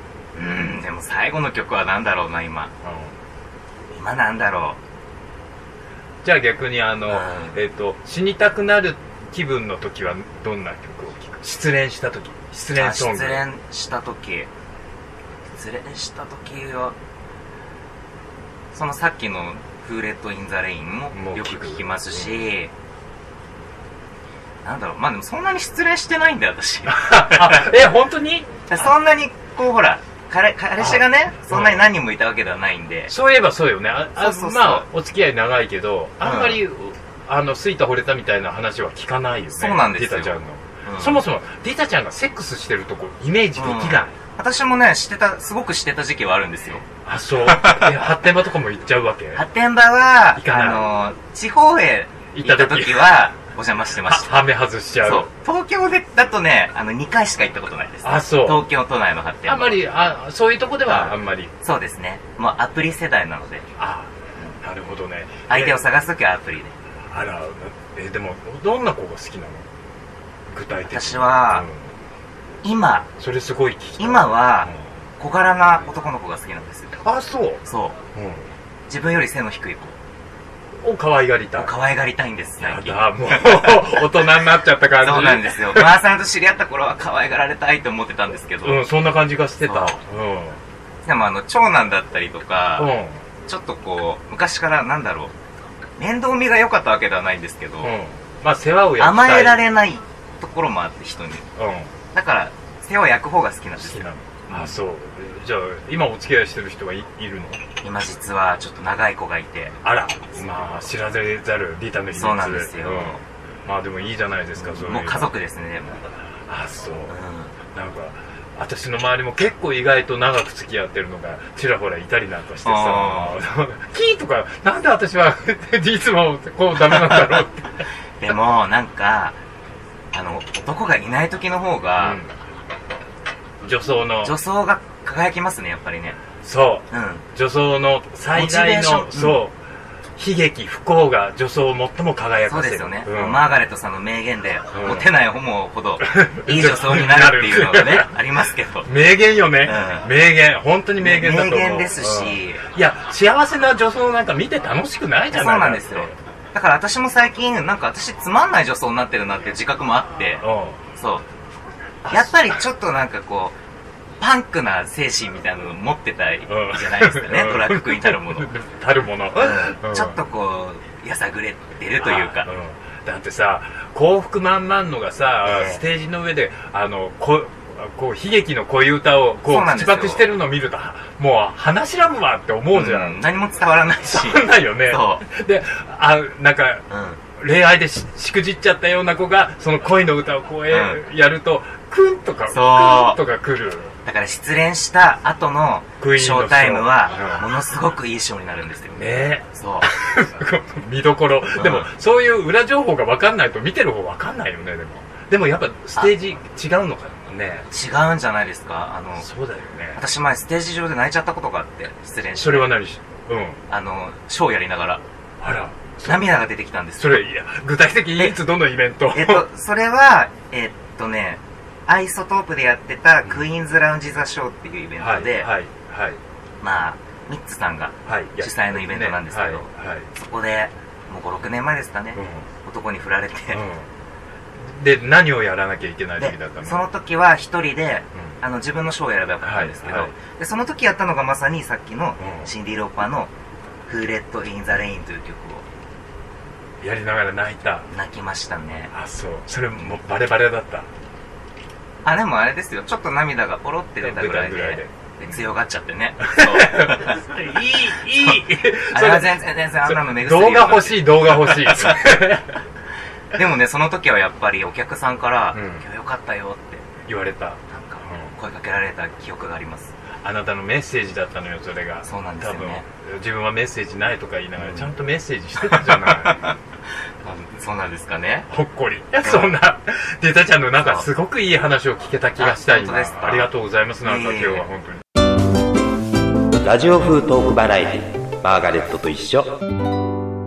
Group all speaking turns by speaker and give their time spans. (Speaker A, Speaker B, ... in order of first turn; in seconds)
Speaker A: 0.3-2.7, 3.9-4.8, 7.1-7.6, 12.8-14.5, 15.6-16.9, 18.7-22.7, 24.6-27.8, 28.7-33.1, 34.2-34.9, 36.2-36.6, 39.5-41.2, 43.6-46.9, 47.5-47.9, 49.4-54.4, 55.0-59.8, 60.9-63.6, 65.5-66.7, 70.9-71.7, 72.6-73.1, 74.0-77.0, 77.6-78.0, 78.9-80.0, 81.6-84.0, 85.0-88.8, 89.7-90.0, 91.0-92.9, 93.5-95.3, 96.0-97.9, 99.0-101.5, 102.1-104.8, 107.8-109.8, 112.1-113.2, 114.6-116.0, 117.1-117.5, 122.6-123.4, 126.8-127.4, 128.2-129.4, 130.1-132.2, 134.2-136.2, 136.9-137.2, 138.3-139.4, 142.5-148.9, 149.6-150.1, 151.0-152.6, 155.3-160.4, 160.9-161.2, 162.1-163.6, 164.2-168.5, 169.3-172.5, 175.4-175.8, 179.5-180.3, 182.7-185.2, 186.9-187.2, 190.7-191.0, 192.5-193.2, 194.1-199.9, 201.6-201.9, 207.7-209.3, 209.9-212.8, 213.7-215.0, 216.1-217.2, 219.1-225.5, 226.6-233.6, 236.2-243.3, 243.9-245.6, 247.9-248.9, 252.1-257.4, 258.9-262.1, 263.3-266.9, 267.7-269.9, 272.1-272.9, 274.6-274.9, 275.6-276.6, 277.2-278.5, 279.2-279.5, 282.4-283.5, 284.0-284.6
Speaker B: 2.8-3.1, 6.2-13.4, 21.1-22.4, 26.9-28.9, 30.8-31.9, 33.1-44.1, 47.0-49.4, 50.4-50.9, 52.4-53.3, 54.0-55.3, 58.0-58.7, 59.4-61.5, 63.8-65.8, 67.1-69.7, 70.5-71.9, 73.2-74.8, 77.0-77.6, 78.1-78.5, 80.8-81.7, 82.6-86.0, 88.6-90.6, 92.8-93.2, 97.8-99.6, 101.6-101.9, 103.8-107.6, 109.8-115.3, 116.5-117.1, 117.7-127.9, 132.0-132.3, 133.6-134.3, 136.4-139.6, 140.2-143.5, 144.7-145.1, 146.0-148.2, 148.8-156.1, 160.4-160.8, 162.0-162.6, 166.5-170.2, 172.0-183.2, 184.1-186.8, 187.4-193.9, 196.0-197.5, 198.9-207.7, 209.2-210.0, 212.4-213.6, 215.4-216.4, 217.0-219.4, 225.0-226.2, 228.1-230.1, 232.2-232.4, 233.5-233.9, 234.6-236.9, 239.4-240.1, 242.2-242.5, 246.8-247.9, 248.9-250.9, 254.0-255.4, 256.2-262.6, 265.5-265.8, 267.1-268.3, 270.2-276.5, 278.5-285.0
Speaker C: 286.6-289.6